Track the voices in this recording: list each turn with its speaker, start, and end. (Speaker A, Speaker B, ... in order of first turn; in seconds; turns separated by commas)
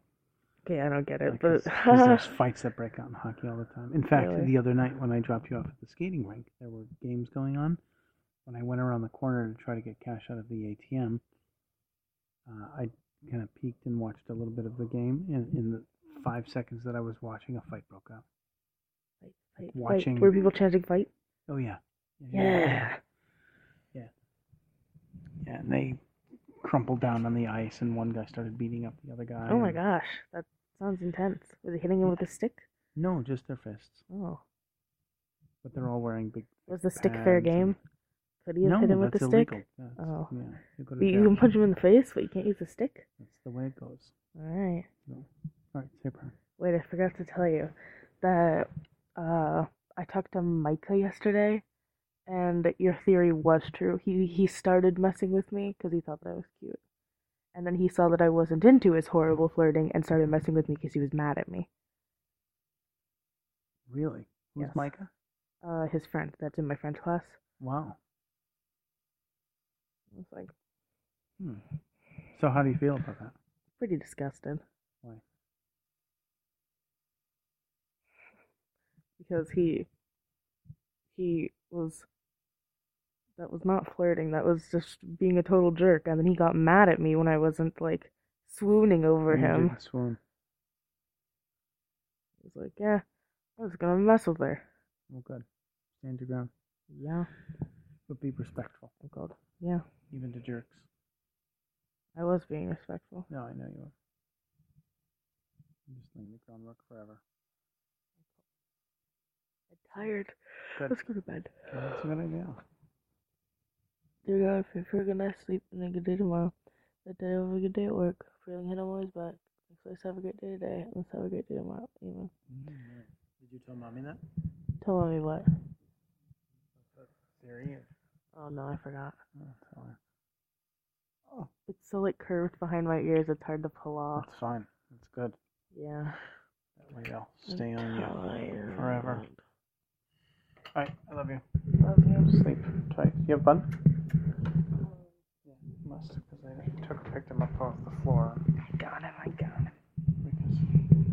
Speaker A: 0.6-2.4, Speaker B: 1.2-7.8, Speaker A: 4.1-4.5, Speaker B: 8.4-11.2, Speaker B: 12.4-18.2, Speaker A: 19.2-21.1, Speaker B: 19.7-20.4, Speaker B: 21.5-22.9, Speaker A: 22.3-23.0, Speaker B: 25.4-26.0, Speaker B: 26.6-29.8, Speaker A: 29.5-32.6, Speaker B: 32.9-34.0, Speaker A: 34.1-34.4, Speaker B: 35.6-37.8, Speaker A: 36.7-37.8, Speaker A: 38.4-40.3, Speaker B: 38.6-41.4, Speaker A: 41.0-43.1, Speaker B: 43.2-44.1, Speaker A: 44.4-44.9, Speaker B: 45.1-46.3, Speaker A: 46.6-51.6, Speaker A: 52.3-56.8, Speaker A: 57.5-61.7, Speaker B: 63.9-65.1, Speaker A: 64.6-64.9, Speaker A: 65.6-67.4, Speaker B: 67.6-68.0, Speaker A: 70.1-70.5, Speaker B: 72.3-73.3, Speaker A: 73.8-74.6, Speaker A: 79.2-79.9, Speaker A: 81.1-82.1, Speaker A: 83.4-89.8, Speaker B: 89.3-90.2, Speaker A: 92.4-93.0, Speaker A: 93.6-94.7, Speaker B: 95.1-95.4, Speaker B: 96.0-96.5, Speaker A: 96.9-97.3, Speaker B: 98.1-98.9, Speaker A: 99.0-99.8, Speaker B: 100.1-100.9, Speaker A: 102.2-103.3, Speaker B: 103.3-103.9, Speaker B: 105.9-107.2, Speaker A: 109.7-111.5, Speaker B: 111.7-112.6, Speaker A: 114.2-122.3, Speaker B: 122.5-124.2, Speaker A: 124.8-125.5, Speaker B: 126.8-127.9, Speaker A: 128.3-129.2, Speaker B: 129.3-130.0, Speaker A: 131.7-134.3, Speaker B: 134.2-135.4, Speaker A: 135.7-136.2, Speaker B: 136.8-139.3, Speaker A: 137.5-139.4, Speaker B: 140.7-141.4, Speaker A: 141.8-142.4, Speaker B: 142.1-144.0, Speaker B: 145.4-148.5, Speaker A: 148.6-149.7, Speaker B: 150.2-150.8